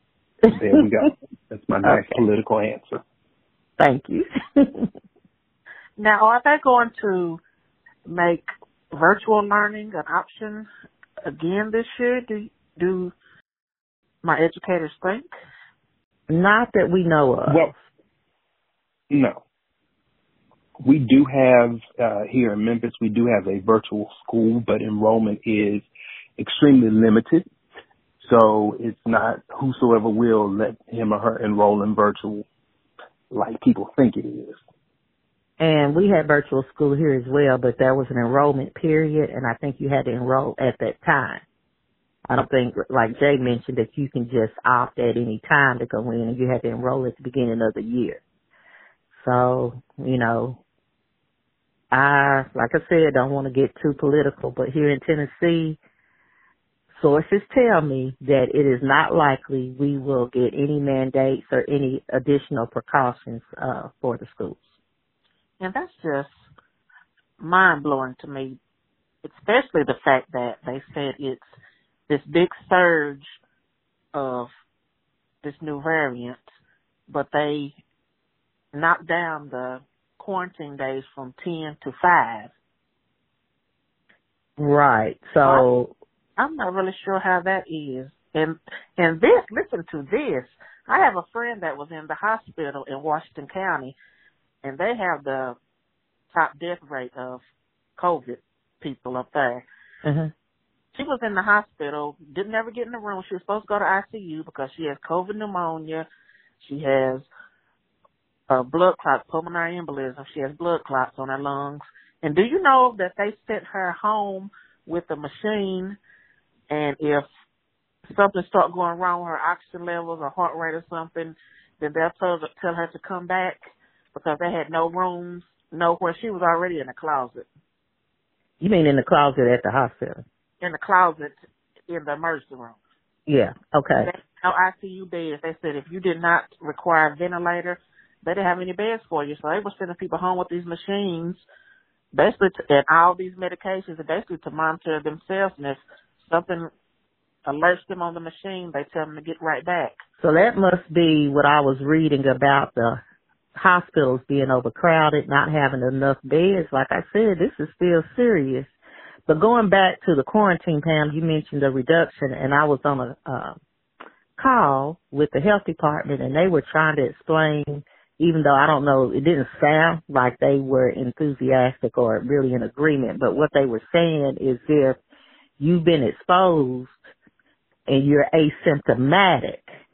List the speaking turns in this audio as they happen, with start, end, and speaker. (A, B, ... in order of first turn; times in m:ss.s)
0:00.5-0:03.0 A
0:01.8-0:02.2 B
0:03.8-0:04.9 B
0:06.0-0:07.4 C
0:08.1-0:10.7 C
0:11.2-0:13.1 C
0:14.2-0:15.3 C
0:16.3-0:17.7 B
0:17.5-0:17.7 A
0:19.1-0:19.4 A
0:20.8-0:25.9 A
0:26.4-0:27.5 A
0:28.2-0:32.5 A
0:33.3-0:34.6 A
0:35.6-0:41.4 B
0:42.3-0:48.2 B
0:49.2-0:50.6 B
0:51.9-0:55.8 B
0:57.0-1:04.7 B
1:05.6-1:06.3 C
1:07.4-1:08.6 C
1:09.2-1:11.4 C
1:12.1-1:13.3 C
1:14.1-1:14.5 C
1:15.4-1:16.4 C
1:17.1-1:17.7 C
1:18.7-1:22.5 C
1:24.6-1:25.9 B
1:26.4-1:34.0 C
1:34.6-1:35.6 C
1:36.3-1:37.4 C
1:38.0-1:39.6 C
1:40.0-1:40.3 B
1:40.9-1:46.1 C
1:46.6-1:47.3 C
1:48.5-1:56.0 C
1:56.7-1:57.3 C
1:58.1-2:03.6 C
2:04.1-2:07.5 C
2:08.6-2:10.2 B
2:10.6-2:11.4 C
2:11.9-2:12.8 C
2:13.3-2:14.1 B
2:14.0-2:21.4 C
2:22.1-2:26.7 C
2:27.4-2:30.0 C
2:30.2-2:33.0 B
2:33.6-2:38.7 B
2:39.3-2:43.6 B
2:44.4-2:55.0 B
2:55.6-2:57.0 B
2:57.9-2:59.7 B